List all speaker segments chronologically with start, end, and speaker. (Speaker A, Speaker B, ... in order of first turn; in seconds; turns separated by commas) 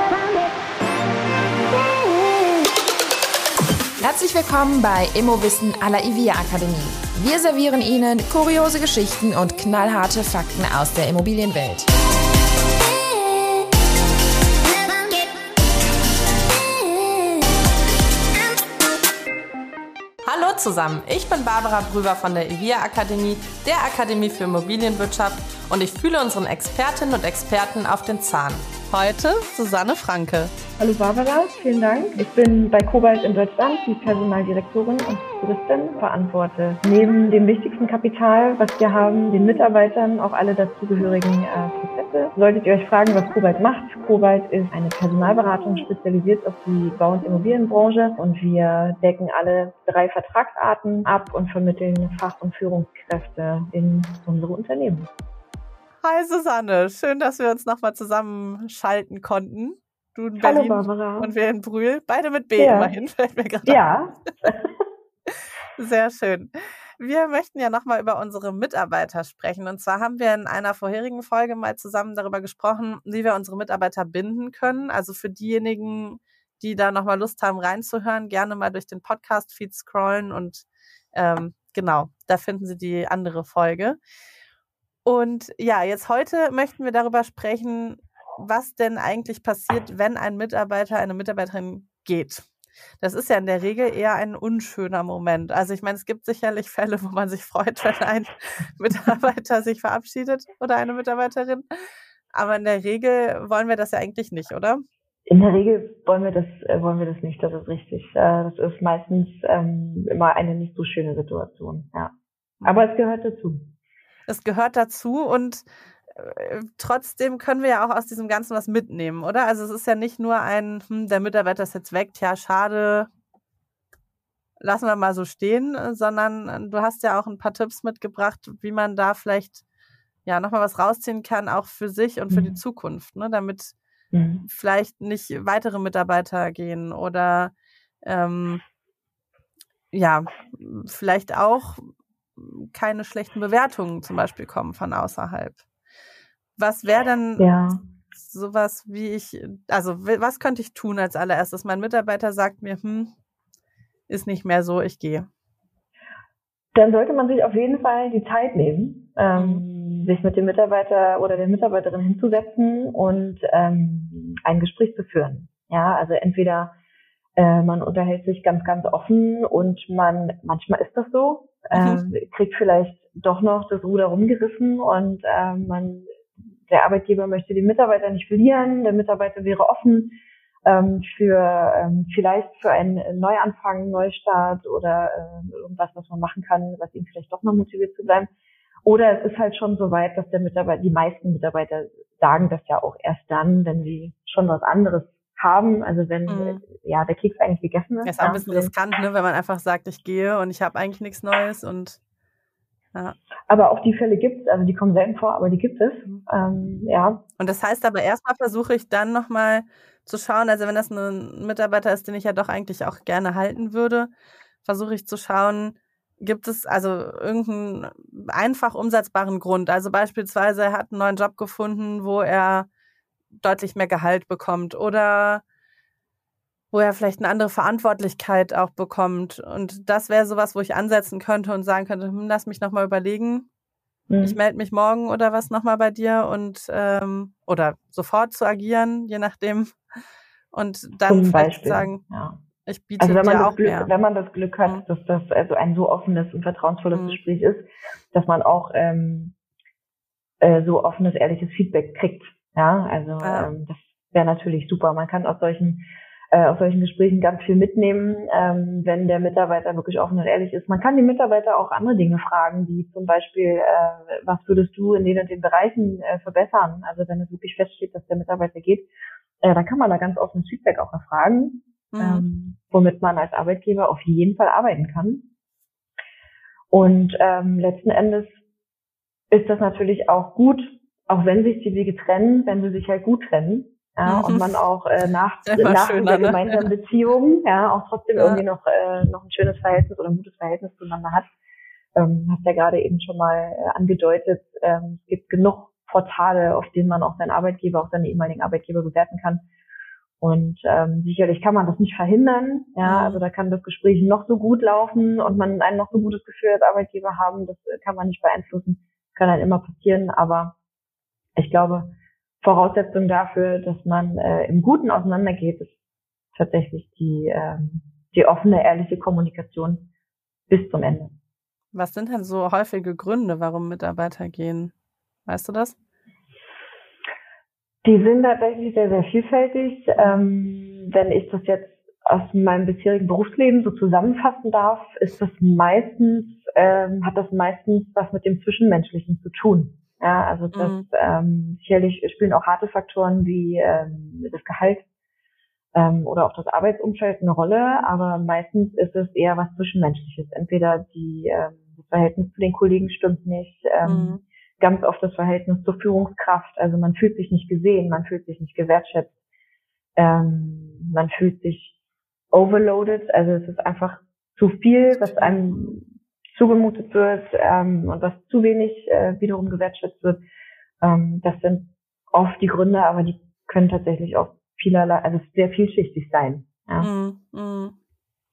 Speaker A: 4.0-11.9, Speaker B: 20.3-30.5, Speaker C: 30.8-55.1, Speaker B: 56.0-63.9, Speaker C: 60.4-61.3, Speaker C: 62.6-62.9, Speaker C: 63.6-64.7, Speaker B: 65.3-84.0, Speaker B: 85.0-92.5, Speaker B: 93.0-101.7, Speaker B: 102.3-104.8, Speaker C: 105.3-113.7, Speaker B: 112.6-112.9, Speaker B: 114.3-123.1, Speaker B: 124.6-129.6, Speaker B: 130.3-133.8, Speaker C: 132.3-132.6, Speaker C: 134.1-134.5, Speaker B: 134.5-137.5, Speaker B: 138.0-138.6, Speaker B: 139.9-141.8, Speaker B: 142.4-145.6, Speaker B: 146.6-147.5, Speaker C: 147.4-147.8, Speaker B: 148.2-153.1, Speaker B: 154.1-155.3, Speaker C: 156.8-166.7, Speaker B: 159.3-159.6, Speaker C: 167.4-188.3, Speaker B: 171.8-172.0, Speaker C: 188.8-198.7, Speaker B: 196.3-196.6, Speaker B: 198.1-202.0, Speaker C: 203.5-207.2, Speaker B: 207.4-214.1, Speaker B: 214.7-222.7, Speaker B: 223.4-225.4, Speaker B: 226.7-233.5, Speaker C: 234.1-234.4, Speaker B: 234.2-239.8, Speaker B: 240.5-242.0, Speaker C: 241.1-242.4, Speaker B: 242.7-243.9, Speaker C: 243.0-249.3, Speaker B: 246.9-247.2, Speaker C: 250.4-268.9, Speaker B: 253.2-253.5, Speaker C: 269.4-275.3, Speaker B: 271.9-272.3, Speaker C: 276.7-278.3, Speaker C: 279.3-291.3, Speaker B: 284.1-284.5, Speaker B: 285.5-286.7, Speaker B: 288.2-288.4, Speaker C: 292.0-299.4, Speaker C: 300.2-310.6, Speaker B: 302.8-303.2, Speaker C: 311.4-315.7, Speaker C: 316.3-319.9, Speaker C: 320.5-321.1, Speaker B: 321.7-324.7, Speaker B: 325.3-325.8, Speaker C: 327.8-344.9, Speaker B: 340.5-340.9, Speaker C: 345.7-359.1, Speaker B: 353.9-354.2, Speaker C: 360.0-361.7, Speaker C: 362.3-370.2, Speaker B: 365.0-365.6, Speaker C: 370.8-376.9, Speaker B: 376.8-377.8